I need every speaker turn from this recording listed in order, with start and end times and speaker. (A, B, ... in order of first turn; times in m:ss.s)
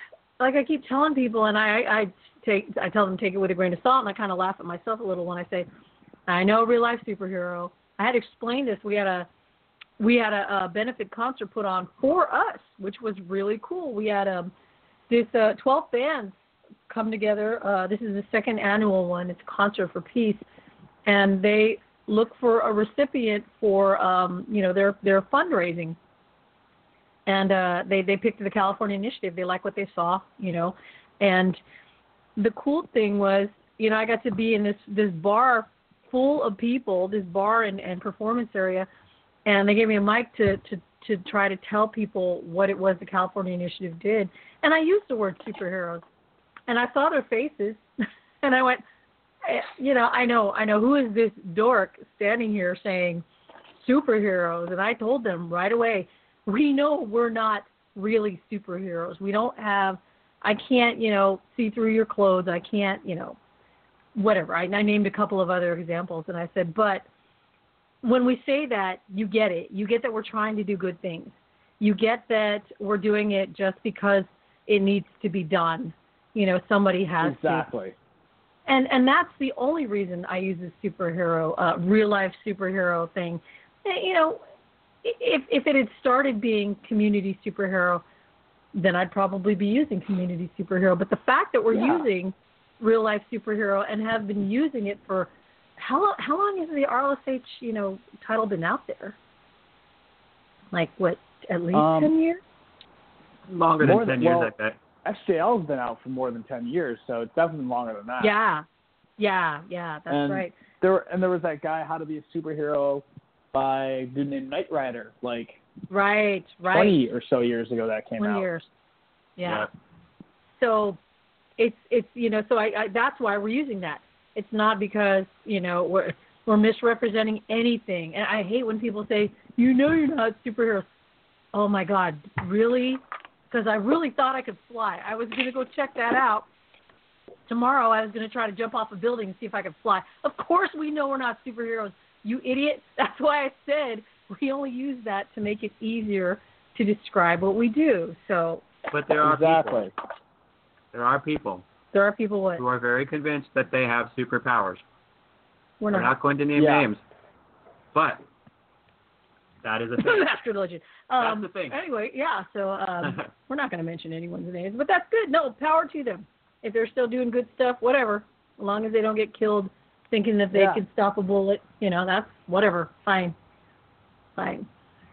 0:00.4-0:05.7 A
0:06.3-0:09.3 A
0:10.0-0:14.5 A
0:15.1-0:16.3 A
0:16.9-0:20.4 A
0:21.0-0:26.0 A
0:27.3-0:31.6 A
0:32.4-0:38.9 A
0:39.4-0:46.0 A
0:46.7-0:47.8 A
0:48.4-0:48.8 A
0:49.4-0:53.2 A
0:53.8-1:03.4 A
1:04.1-1:07.0 A
1:08.0-1:17.7 A
1:17.2-1:17.9 B
1:18.7-1:24.4 A
1:25.0-1:28.0 A
1:28.7-1:39.1 A
1:31.7-1:32.1 B
1:40.7-1:42.4 A
1:41.7-1:42.1 B
1:43.5-1:44.8 C
1:43.8-1:48.3 B
1:48.2-1:48.6 A
1:49.2-1:50.5 A
1:50.1-1:55.6 B
1:55.9-1:57.0 A
1:56.7-1:58.5 B
1:58.2-1:58.7 A
1:59.4-1:59.7 A
2:00.6-2:01.0 A
2:01.6-2:10.9 A
2:11.5-2:16.5 A
2:17.5-2:28.6 A
2:28.9-2:29.8 C
2:29.1-2:29.9 B
2:30.9-2:31.6 C
2:31.9-2:32.6 A
2:32.6-2:34.8 C
2:35.8-2:36.1 A
2:35.9-2:37.0 C
2:36.5-2:36.9 B
2:37.9-2:38.2 C
2:39.6-2:40.3 C
2:40.0-2:53.4 A
2:41.2-2:41.8 C
2:50.5-2:50.8 B
2:54.4-2:54.6 A